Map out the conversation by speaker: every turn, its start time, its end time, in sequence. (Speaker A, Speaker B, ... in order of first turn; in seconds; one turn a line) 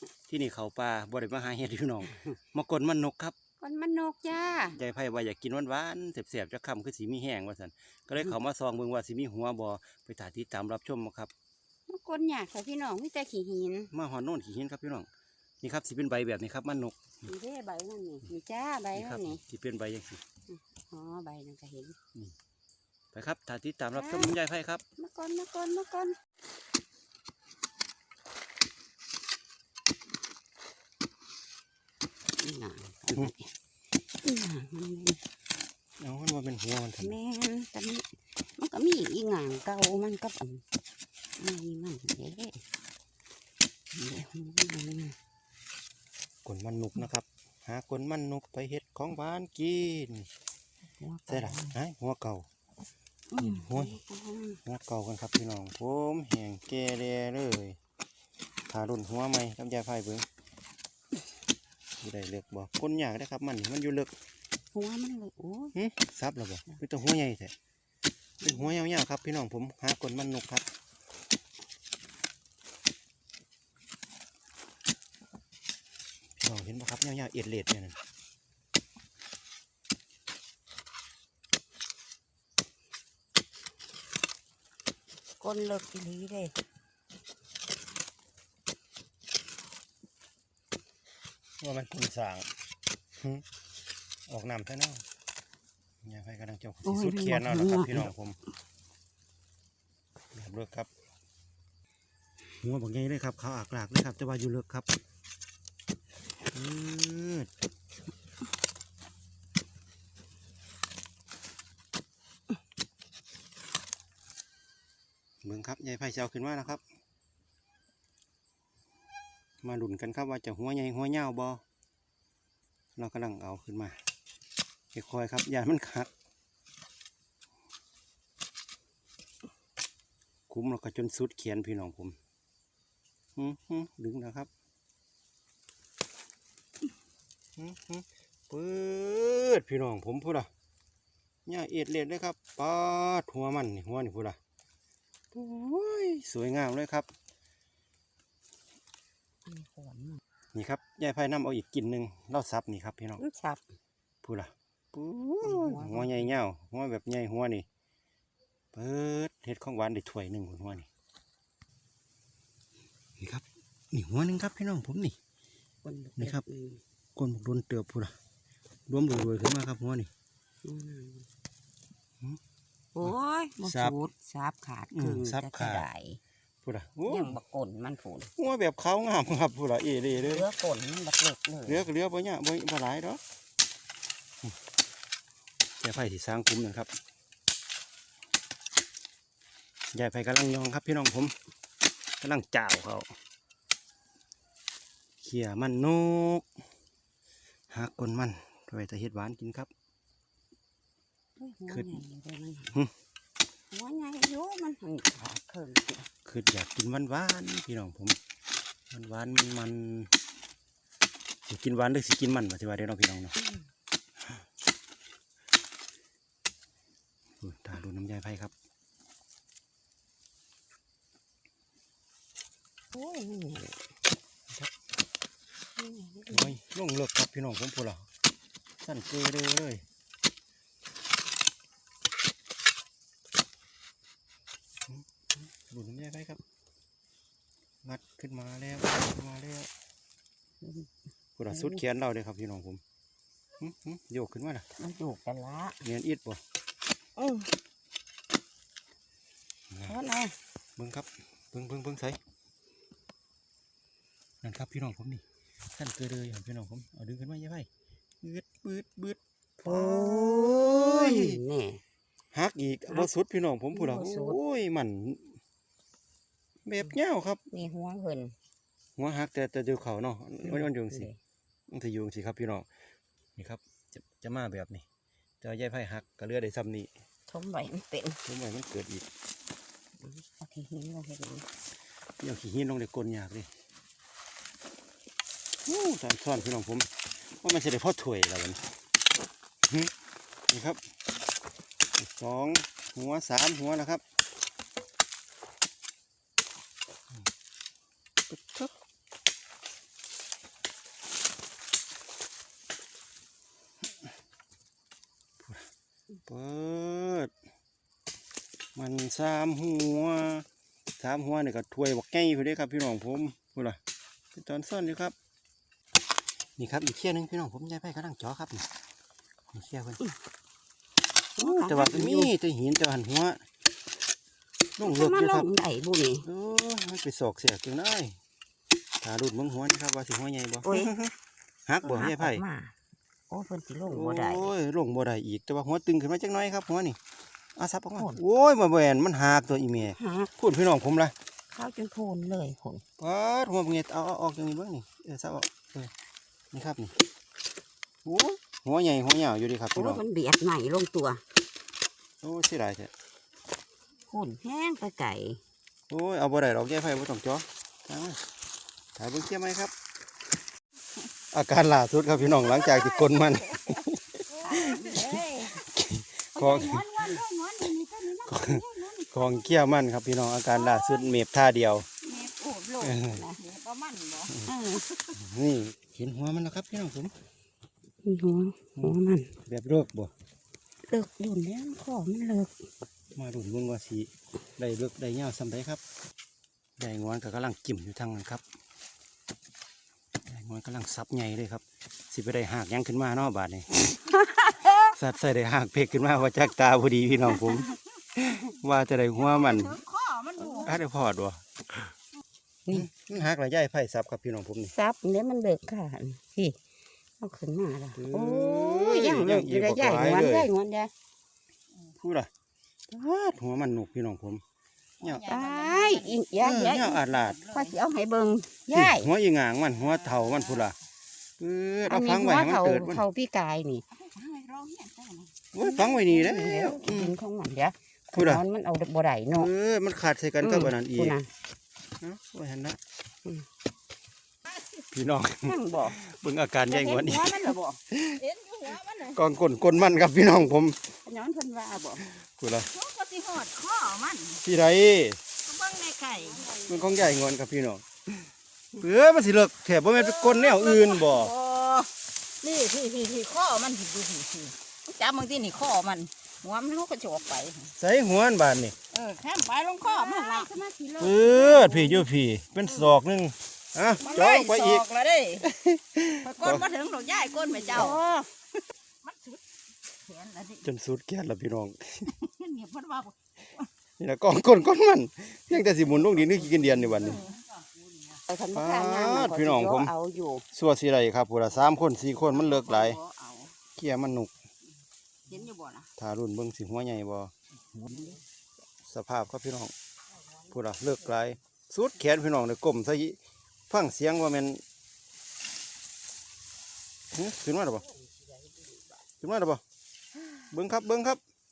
Speaker A: 0.3-3.4
Speaker B: 3.6-4.8
Speaker A: 4.7-11.3
Speaker B: 11.9-13.9
Speaker A: 13.9-15.1
Speaker A: 15.6-17.0
Speaker B: 17.2-19.4
Speaker A: 18.9-20.2
Speaker B: 20.5-22.0
Speaker A: 23.1-24.8
Speaker B: 24.0-24.4
Speaker B: 25.0-26.2
Speaker B: 32.4-33.5
Speaker B: 34.2-35.2
Speaker A: 36.0-37.2
Speaker B: 37.0-38.1
Speaker B: 38.6-40.6
Speaker B: 41.4-42.6
Speaker B: 43.9-45.2
Speaker A: 46.5-50.3
Speaker B: 51.0-51.8
Speaker A: 51.3-52.5
Speaker B: 53.3-54.6
Speaker A: 53.4-54.0
Speaker A: 54.7-57.8
Speaker A: 58.7-60.2
Speaker A: 62.0-64.1
Speaker B: 64.7-65.8
Speaker A: 65.8-67.5
Speaker A: 68.4-70.7
Speaker A: 76.4-78.0
Speaker B: 85.4-86.5
Speaker A: 91.6-92.5
Speaker A: 93.2-93.5
Speaker A: 94.3-95.0
Speaker A: 96.0-98.4
Speaker B: 96.8-98.1
Speaker A: 100.3-100.9
Speaker A: 102.5-104.9
Speaker A: 106.5-107.5
Speaker A: 115.4-116.8
Speaker A: 119.6-121.6
Speaker A: 123.0-124.0
Speaker A: 124.9-126.1
Speaker A: 130.5-132.2
Speaker A: 133.4-134.5
Speaker A: 137.6-140.5
Speaker A: 141.5-144.4
Speaker A: 145.3-147.1
Speaker B: 149.5-150.2
Speaker A: 150.5-153.2
Speaker B: 153.2-153.6
Speaker A: 154.2-157.7
Speaker B: 155.4-156.3
Speaker A: 158.7-160.9
Speaker A: 163.2-165.2
Speaker B: 165.8-166.8
Speaker A: 166.2-166.4
Speaker A: 167.2-168.1
Speaker A: 168.9-170.1
Speaker B: 170.7-171.3
Speaker B: 172.9-176.2
Speaker A: 173.0-174.0
Speaker A: 174.9-175.9
Speaker A: 176.6-177.4
Speaker B: 177.1-178.3
Speaker A: 178.4-180.5
Speaker B: 180.2-181.9
Speaker A: 181.7-183.2
Speaker A: 185.8-186.9
Speaker A: 189.9-191.3
Speaker A: 192.2-193.1
Speaker A: 195.2-196.5
Speaker A: 197.7-199.7
Speaker B: 201.4-202.8
Speaker A: 201.7-202.0
Speaker B: 203.7-206.1
Speaker A: 206.3-208.2
Speaker A: 208.9-210.1
Speaker A: 211.5-213.3
Speaker B: 213.4-213.7
Speaker A: 217.4-218.5
Speaker B: 222.9-223.8
Speaker B: 225.8-226.6
Speaker A: 226.3-228.1
Speaker A: 228.8-229.8
Speaker A: 235.7-236.4
Speaker A: 237.8-239.7
Speaker B: 240.6-240.9
Speaker A: 241.4-242.8
Speaker B: 241.5-241.8
Speaker A: 243.6-244.7
Speaker B: 244.8-245.8
Speaker A: 245.8-246.4
Speaker B: 247.2-247.5
Speaker A: 249.7-250.0
Speaker B: 249.9-250.4
Speaker A: 250.8-252.2
Speaker A: 254.4-257.7
Speaker A: 258.2-261.4
Speaker B: 259.6-261.8
Speaker A: 262.3-265.4
Speaker B: 263.7-264.4
Speaker A: 266.6-267.4
Speaker B: 267.5-268.4
Speaker A: 269.0-271.1
Speaker B: 270.4-271.2
Speaker A: 271.7-272.7
Speaker A: 273.4-274.9
Speaker A: 275.4-276.9
Speaker B: 277.3-278.2
Speaker A: 278.2-279.1
Speaker B: 280.0-281.5
Speaker A: 282.2-283.5
Speaker A: 285.7-288.6
Speaker A: 290.5-290.8
Speaker A: 292.0-294.0
Speaker A: 298.3-298.7
Speaker A: 305.4-305.7
Speaker A: 306.3-307.3
Speaker A: 308.8-310.5
Speaker A: 311.0-313.8
Speaker A: 314.3-315.1
Speaker A: 316.6-318.7
Speaker A: 319.5-320.0
Speaker B: 321.4-322.3
Speaker A: 321.4-323.4
Speaker A: 324.8-325.5
Speaker B: 324.8-326.3
Speaker A: 326.2-328.2
Speaker A: 329.0-331.1
Speaker B: 330.6-330.9
Speaker A: 331.7-332.4
Speaker B: 331.8-332.8
Speaker B: 333.3-334.5
Speaker A: 333.9-337.0
Speaker A: 337.6-341.1
Speaker B: 339.8-340.3
Speaker B: 341.5-342.8
Speaker A: 343.0-345.9
Speaker A: 346.5-346.9
Speaker A: 348.1-350.0
Speaker B: 349.8-351.2
Speaker A: 352.2-352.9
Speaker B: 354.1-355.4
Speaker A: 355.9-358.2
Speaker A: 359.0-359.7
Speaker A: 361.3-367.1
Speaker B: 364.4-365.6
Speaker C: 364.4-365.6
Speaker C: 366.4-369.0
Speaker B: 366.4-368.6
Speaker A: 368.2-371.9
Speaker C: 370.5-371.0
Speaker C: 372.1-374.4
Speaker A: 372.8-373.2
Speaker B: 373.0-373.5
Speaker B: 374.4-375.1
Speaker A: 375.1-377.1
Speaker B: 378.0-379.3
Speaker A: 378.8-380.1
Speaker B: 380.9-382.5
Speaker A: 383.1-385.8
Speaker A: 386.8-388.4
Speaker A: 390.3-394.0
Speaker B: 394.3-394.8
Speaker A: 394.8-399.8
Speaker C: 399.3-400.5
Speaker A: 400.4-401.9
Speaker A: 402.7-404.7
Speaker B: 404.7-406.6
Speaker B: 407.2-410.9
Speaker A: 407.9-410.5
Speaker A: 412.0-412.3
Speaker A: 412.9-414.4
Speaker A: 415.0-415.3
Speaker C: 415.0-416.2
Speaker B: 415.1-419.1
Speaker A: 416.4-417.5
Speaker C: 416.8-417.7
Speaker A: 418.7-420.8
Speaker A: 421.4-423.1
Speaker B: 421.9-424.0
Speaker C: 424.0-425.3
Speaker A: 425.5-427.1
Speaker B: 425.6-429.5
Speaker A: 428.1-428.4
Speaker A: 429.3-431.2
Speaker B: 430.4-431.3
Speaker A: 432.0-432.8
Speaker A: 434.8-438.2
Speaker B: 435.4-436.1
Speaker B: 436.7-437.8
Speaker C: 438.2-439.2
Speaker A: 439.0-440.9
Speaker B: 441.1-442.1
Speaker A: 442.2-442.7
Speaker C: 442.7-444.4
Speaker A: 444.4-445.2
Speaker C: 445.5-446.7
Speaker A: 446.6-447.8
Speaker A: 448.8-451.3
Speaker C: 449.9-457.7
Speaker A: 457.8-458.8
Speaker C: 458.9-461.9
Speaker B: 459.8-462.1
Speaker A: 461.0-466.7
Speaker C: 464.0-465.5
Speaker C: 466.2-468.0
Speaker B: 466.4-468.3
Speaker A: 467.7-468.0
Speaker C: 469.1-469.4
Speaker C: 470.1-470.6
Speaker A: 470.6-472.1
Speaker C: 472.1-473.1
Speaker A: 474.0-477.2
Speaker C: 477.0-477.3
Speaker B: 478.3-480.4
Speaker A: 478.5-479.9
Speaker A: 480.5-483.0
Speaker B: 482.4-483.5
Speaker A: 483.8-484.3
Speaker B: 485.3-485.9
Speaker A: 486.0-487.3
Speaker B: 487.8-488.1
Speaker A: 488.9-489.7
Speaker A: 490.5-493.2
Speaker A: 493.7-494.6
Speaker A: 497.1-497.9
Speaker A: 499.2-499.6
Speaker A: 500.5-501.2